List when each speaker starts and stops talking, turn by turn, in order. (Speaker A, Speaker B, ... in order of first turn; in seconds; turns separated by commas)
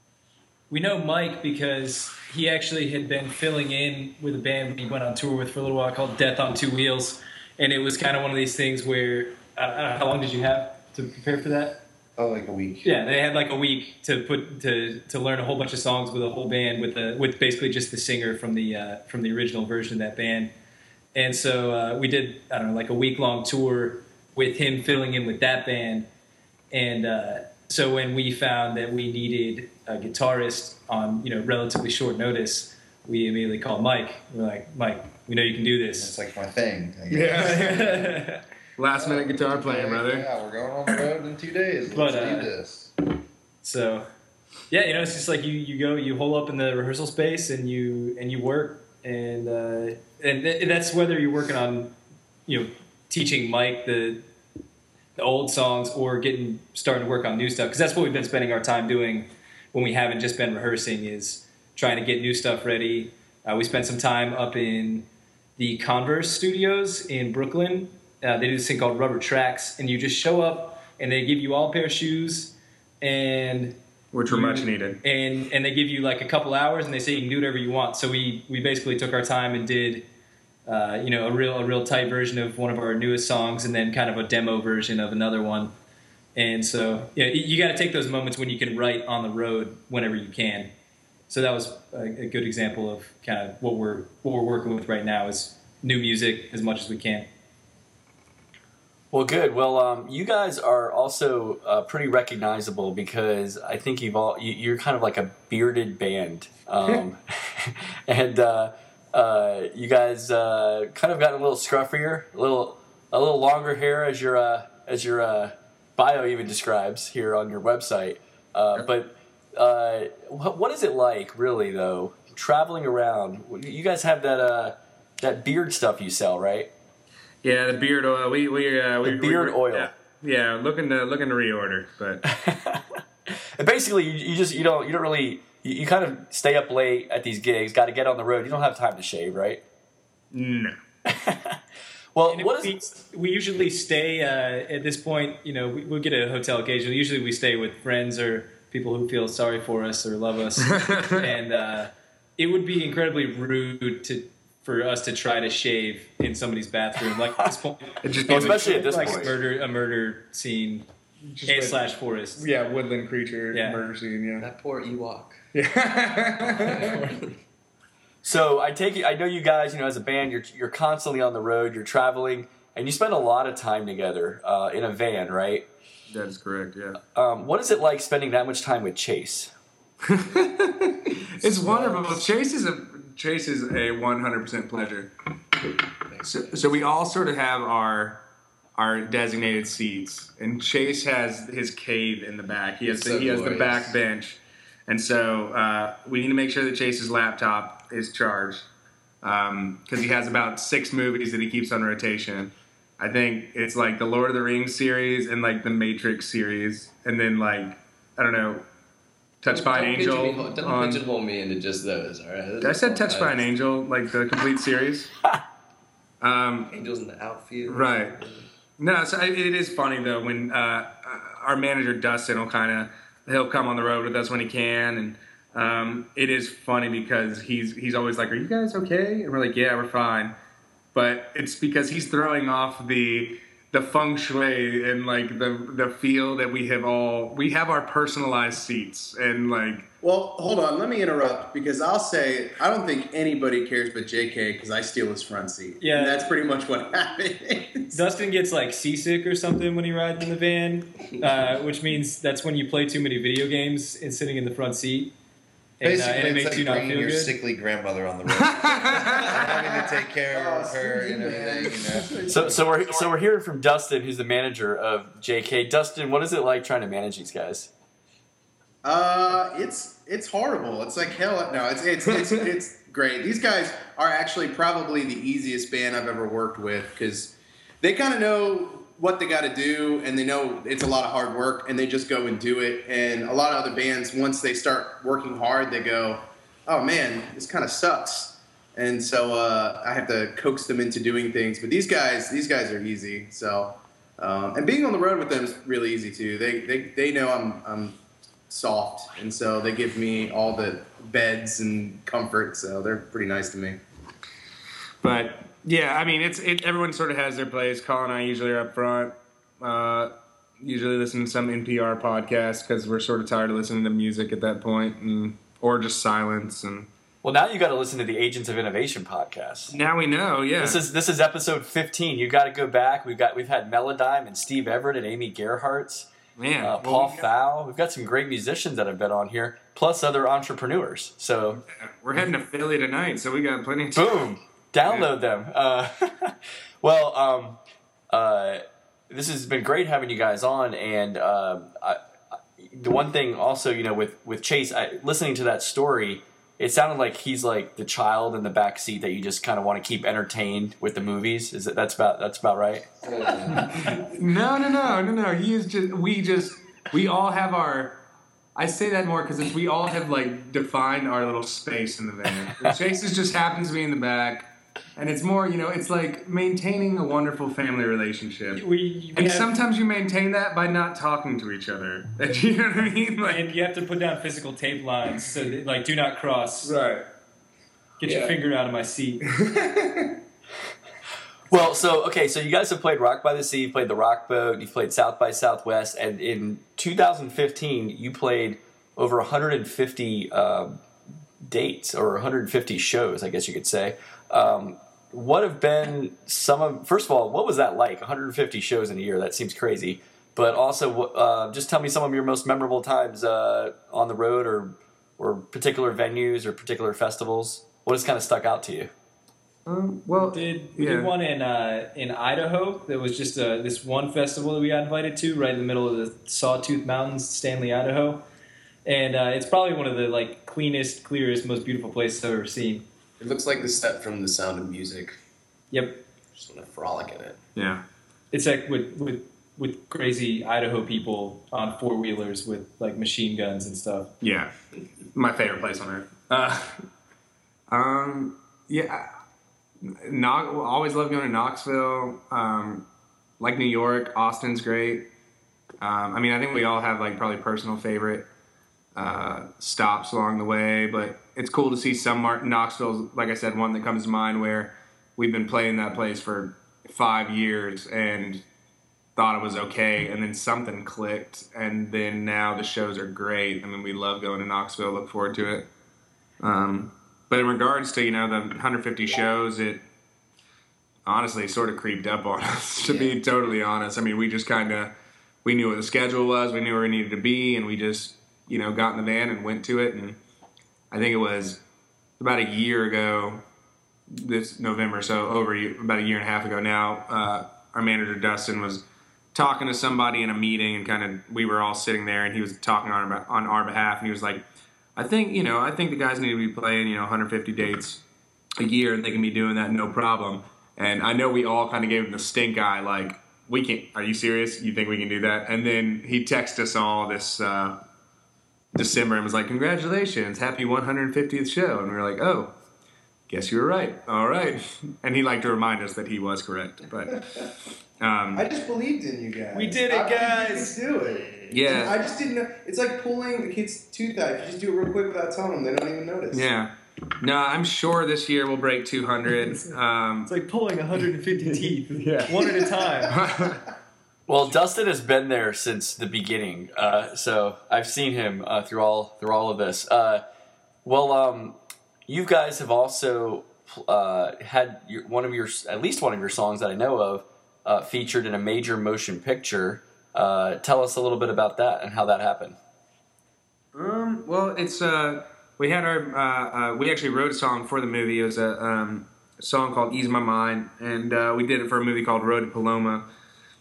Speaker A: 0.7-11.8, Speaker B: 12.2-12.9, Speaker A: 12.8-20.5, Speaker A: 21.1-26.1, Speaker A: 26.7-36.1, Speaker B: 35.9-38.1, Speaker C: 37.1-37.7, Speaker A: 37.4-38.4, Speaker C: 38.8-40.3, Speaker B: 38.9-42.9, Speaker A: 41.9-42.5, Speaker A: 43.6-44.1, Speaker A: 44.7-51.9, Speaker A: 52.5-54.2, Speaker A: 55.2-80.0, Speaker C: 74.1-75.0, Speaker A: 80.7-85.7, Speaker A: 86.3-90.7, Speaker A: 91.3-97.3, Speaker D: 99.1-126.7, Speaker C: 127.4-132.2, Speaker D: 129.0-129.9, Speaker D: 132.2-139.6, Speaker C: 140.3-140.7, Speaker D: 141.1-141.6, Speaker D: 142.1-142.9, Speaker A: 142.3-160.9, Speaker C: 150.7-151.2, Speaker C: 158.0-159.3, Speaker D: 158.3-159.3, Speaker C: 161.2-161.8, Speaker A: 161.4-162.4, Speaker C: 162.3-164.4, Speaker A: 163.5-163.8, Speaker E: 164.4-165.4, Speaker C: 165.5-166.9, Speaker E: 166.5-167.2, Speaker D: 168.2-175.7, Speaker C: 176.1-177.0, Speaker D: 177.1-179.5, Speaker C: 180.0-185.1, Speaker E: 181.7-182.1, Speaker E: 186.1-186.7, Speaker C: 186.2-188.2, Speaker C: 188.8-198.7, Speaker E: 192.8-194.0, Speaker C: 199.2-208.7, Speaker C: 209.4-211.0, Speaker E: 209.5-213.5, Speaker C: 212.6-215.1, Speaker C: 216.2-216.7, Speaker E: 216.7-218.5, Speaker C: 217.7-218.2, Speaker C: 218.8-230.3, Speaker C: 230.9-239.9, Speaker F: 240.0-248.0, Speaker A: 245.8-246.3, Speaker A: 247.9-255.1, Speaker A: 255.8-257.4, Speaker B: 255.8-262.7, Speaker C: 258.4-259.3, Speaker F: 259.3-262.4, Speaker D: 262.3-267.7, Speaker F: 268.8-298.0, Speaker F: 298.5-303.8, Speaker C: 305.0-316.9, Speaker D: 317.2-319.7, Speaker C: 319.7-320.8, Speaker D: 320.6-326.1, Speaker C: 326.4-327.3, Speaker D: 326.6-331.6, Speaker C: 331.8-334.1, Speaker D: 333.9-337.6, Speaker D: 338.1-342.0, Speaker D: 342.6-352.9, Speaker E: 353.0-354.0, Speaker C: 353.6-358.0, Speaker C: 358.6-368.6, Speaker A: 368.5-369.5, Speaker C: 369.1-373.4, Speaker A: 373.2-376.7, Speaker C: 376.6-377.0, Speaker A: 378.0-379.2, Speaker C: 378.0-378.3, Speaker C: 379.3-380.1, Speaker D: 381.5-390.8, Speaker D: 391.4-408.9, Speaker C: 409.6-411.1, Speaker A: 410.3-418.2, Speaker A: 418.9-422.8, Speaker E: 423.2-425.2, Speaker A: 425.7-426.1, Speaker E: 426.3-427.4, Speaker C: 427.5-427.8, Speaker A: 428.3-434.1, Speaker C: 434.2-434.5, Speaker C: 435.1-436.8, Speaker C: 437.7-439.1, Speaker C: 439.8-442.9, Speaker C: 443.4-445.1, Speaker C: 445.8-448.3, Speaker C: 448.9-458.4, Speaker C: 459.1-465.7, Speaker C: 466.4-469.8, Speaker C: 471.1-474.9, Speaker C: 475.4-480.2, Speaker C: 480.9-481.6, Speaker C: 482.2-483.4, Speaker C: 484.1-494.4, Speaker C: 494.9-498.0, Speaker C: 498.6-507.8, Speaker C: 508.7-512.5, Speaker C: 513.3-517.5, Speaker C: 518.0-518.5, Speaker F: 518.3-526.5, Speaker A: 519.5-520.8, Speaker C: 521.5-522.0, Speaker C: 526.3-530.3, Speaker A: 530.2-533.1, Speaker C: 531.4-532.4, Speaker C: 533.1-533.6, Speaker D: 534.3-540.2, Speaker D: 540.8-552.6, Speaker C: 553.7-563.1